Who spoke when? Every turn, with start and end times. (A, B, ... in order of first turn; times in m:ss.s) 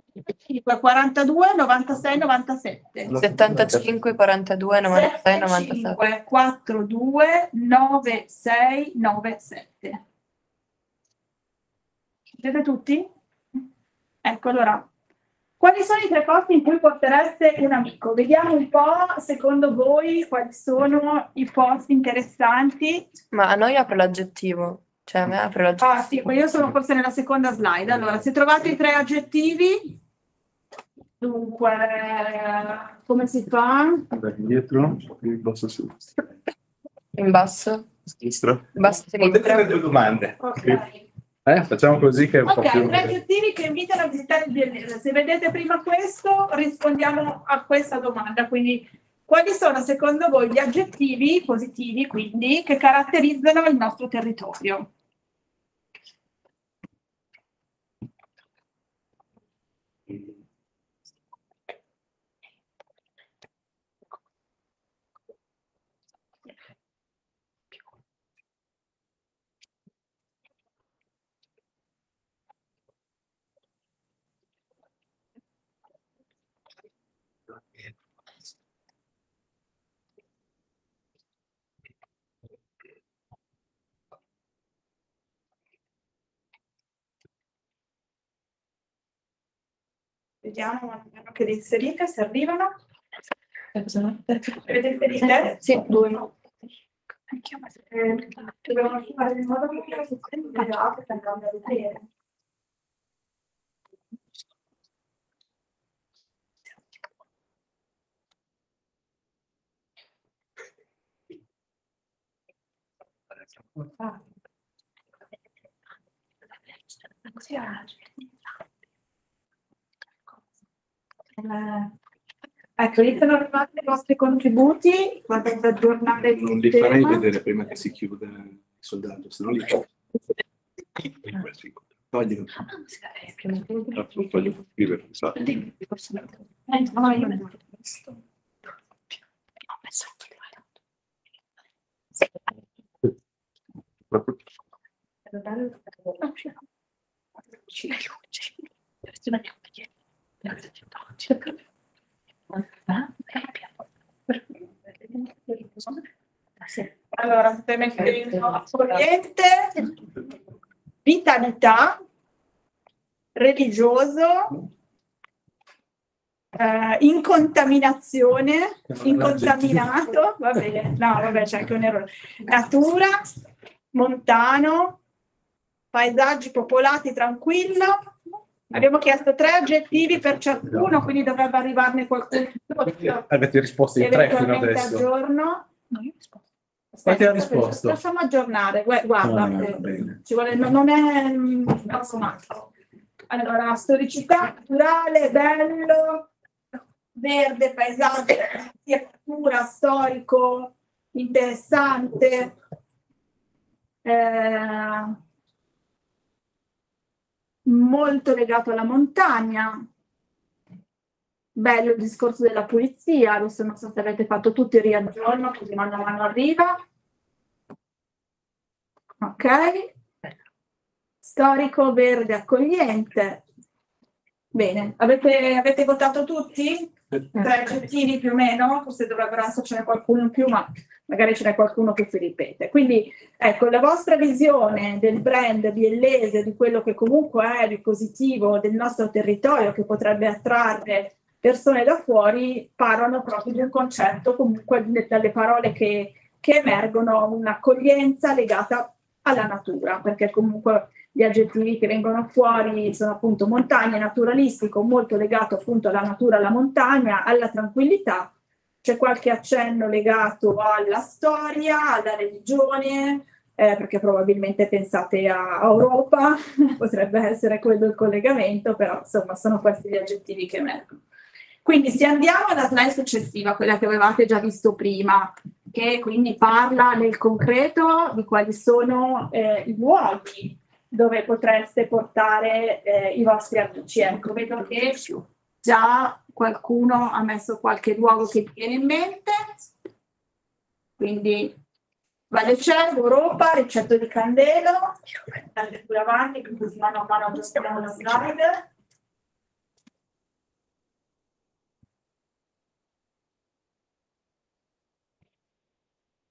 0:00.3-0:03.1 A
0:03.1-0:03.8 B
0:03.1-0:06.0 C
0:04.8-0:10.0 A
0:12.4-0:13.1 A
0:14.2-0:14.9 A
0:15.6-0:23.1 A
0:23.3-0:25.9 C
0:25.8-0:29.9 A
0:31.2-0:34.0 A
0:34.1-0:36.2 B
0:37.2-0:37.8 C
0:38.7-0:39.7 C
0:39.1-0:40.8 B
0:40.4-0:41.0 A
0:41.4-0:43.1 B
0:42.4-0:54.9 A
1:30.4-1:32.7 A
1:33.8-1:34.5 C
1:34.6-1:35.6 A
1:35.6-1:36.3 C
1:37.9-1:42.0 A
1:57.4-1:57.8 A
2:01.4-2:01.9 A
2:02.8-2:07.2 A
2:06.3-2:09.8 B
2:11.0-2:12.5 B
2:13.4-2:13.9 C
2:14.0-2:15.4 B
2:16.7-2:17.5 A
2:32.9-2:33.4 C
2:35.5-2:35.9 A
2:37.1-2:39.8 A
2:41.0-2:42.0 A
2:43.4-2:44.5 A
2:46.6-2:53.3 A
2:48.9-2:49.8 B
2:53.9-2:55.0 A
2:55.9-2:58.2 A
2:58.7-3:03.2 A
3:02.9-3:05.0 B
3:04.0-3:06.1 A
3:07.0-3:12.7 A
3:07.0-3:08.0 B
3:09.2-3:10.2 B
3:13.3-3:16.3 A
3:17.2-3:22.5 A
3:24.0-3:25.2 A
3:27.6-3:29.8 A
3:31.6-3:36.8 A
3:39.2-3:39.9 A
3:41.2-3:43.4 A
3:44.5-4:18.3 A
4:18.8-4:31.0 A
4:31.6-4:45.1 A
4:45.6-4:49.4 A
4:51.0-4:51.5 A
4:52.3-4:55.0 A
4:55.5-4:58.6 A